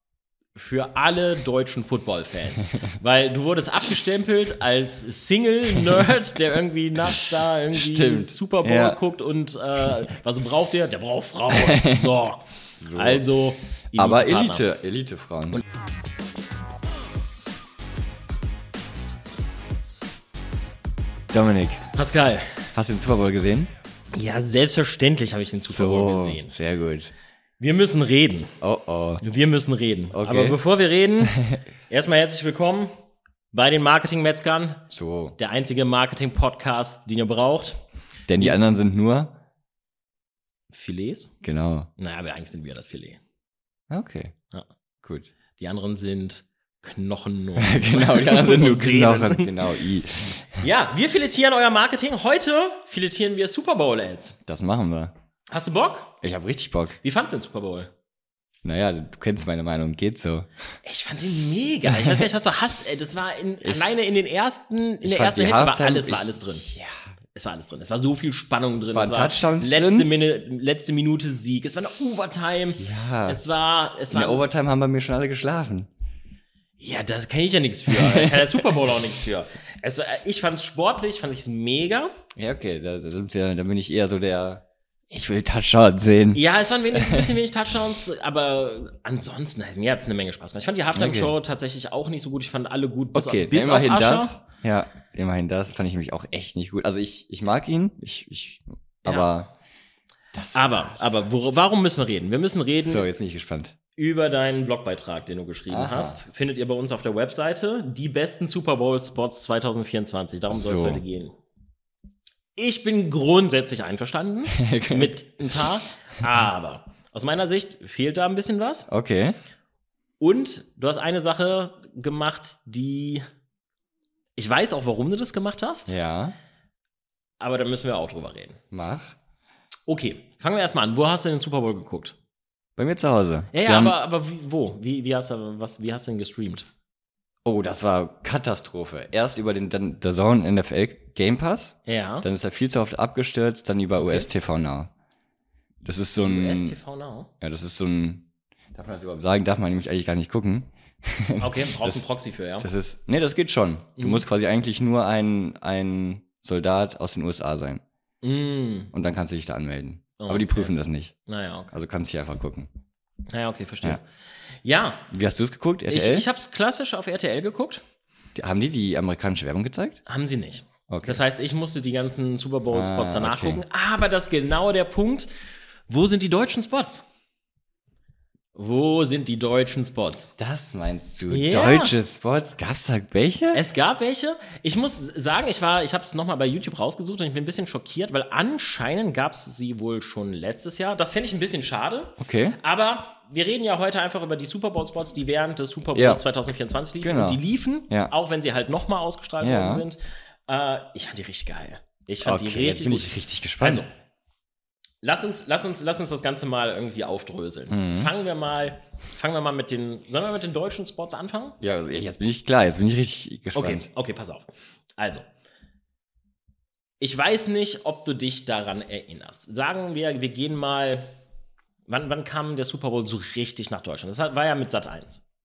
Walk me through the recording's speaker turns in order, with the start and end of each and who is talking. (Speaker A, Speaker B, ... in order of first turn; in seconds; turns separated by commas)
Speaker A: 0.6-12.4, Speaker B: 7.7-9.0, Speaker B: 11.5-12.1, Speaker B: 12.8-13.3, Speaker A: 12.9-14.6, Speaker B: 13.9-15.6, Speaker B: 21.3-21.8, Speaker A: 21.9-22.7, Speaker B: 22.7-23.7, Speaker A: 24.1-26.5, Speaker B: 25.6-27.1, Speaker A: 27.6-28.5, Speaker B: 28.6-29.2, Speaker A: 29.2-31.4, Speaker B: 30.1-30.6, Speaker B: 31.2-31.6, Speaker A: 31.9-32.9, Speaker A: 33.5-34.8, Speaker B: 34.9-35.4, Speaker A: 35.4-37.8, Speaker B: 38.3-39.4, Speaker A: 40.7-41.3, Speaker B: 41.4-41.9, Speaker A: 42.0-43.2, Speaker B: 43.9-44.3, Speaker B: 45.0-45.3, Speaker A: 45.6-49.5, Speaker B: 47.6-50.5, Speaker A: 50.6-54.4, Speaker B: 54.5-55.1, Speaker A: 55.5-56.1, Speaker B: 56.2-57.0, Speaker A: 57.0-57.9, Speaker B: 58.6-60.5, Speaker A: 60.8-66.6, Speaker B: 61.9-62.3, Speaker B: 63.6-63.9, Speaker B: 65.0-67.0, Speaker A: 67.3-74.5, Speaker B: 68.9-70.1, Speaker B: 72.8-73.4, Speaker B: 74.1-75.9, Speaker A: 76.8-82.1, Speaker B: 77.9-78.6, Speaker B: 82.3-86.4, Speaker A: 86.3-94.4, Speaker B: 86.9-87.3, Speaker B: 90.9-91.3, Speaker B: 93.1-99.5, Speaker A: 99.0-99.3, Speaker B: 100.3-101.6, Speaker A: 100.5-103.0, Speaker B: 102.8-103.7, Speaker A: 104.0-111.3, Speaker B: 105.7-106.2, Speaker B: 110.5-111.0, Speaker A: 112.5-118.9, Speaker B: 114.5-115.2, Speaker B: 118.9-119.4, Speaker A: 120.2-123.2, Speaker A: 124.4-125.9, Speaker B: 125.9-126.3, Speaker A: 127.4-128.6, Speaker B: 128.7-129.2, Speaker A: 129.9-132.2, Speaker B: 132.8-133.9, Speaker A: 133.5-136.7, Speaker B: 137.4-144.9, Speaker A: 141.8-142.3, Speaker A: 144.0-144.3, Speaker B: 145.8-146.8, Speaker A: 146.2-147.3, Speaker B: 147.4-152.1, Speaker A: 151.4-152.7, Speaker B: 152.6-157.8, Speaker A: 154.0-154.2, Speaker A: 158.2-158.9, Speaker B: 158.9-161.1, Speaker A: 160.2-160.7, Speaker A: 161.2-161.7, Speaker B: 161.7-162.7, Speaker A: 163.3-164.0, Speaker A: 164.6-165.1, Speaker B: 165.1-166.3, Speaker A: 165.9-167.8, Speaker B: 168.3-170.0, Speaker A: 170.1-175.3, Speaker B: 170.9-171.2, Speaker B: 172.7-173.6, Speaker A: 175.9-177.0, Speaker A: 178.5-180.3, Speaker B: 180.4-183.6, Speaker A: 181.3-181.9, Speaker A: 183.5-203.9, Speaker B: 192.2-192.6, Speaker B: 195.9-196.2, Speaker B: 197.0-198.1, Speaker B: 199.4-199.8, Speaker B: 202.2-203.8, Speaker A: 205.0-211.6, Speaker B: 207.7-208.1, Speaker B: 211.6-213.9, Speaker A: 213.5-215.2, Speaker A: 217.0-221.0, Speaker A: 221.9-225.2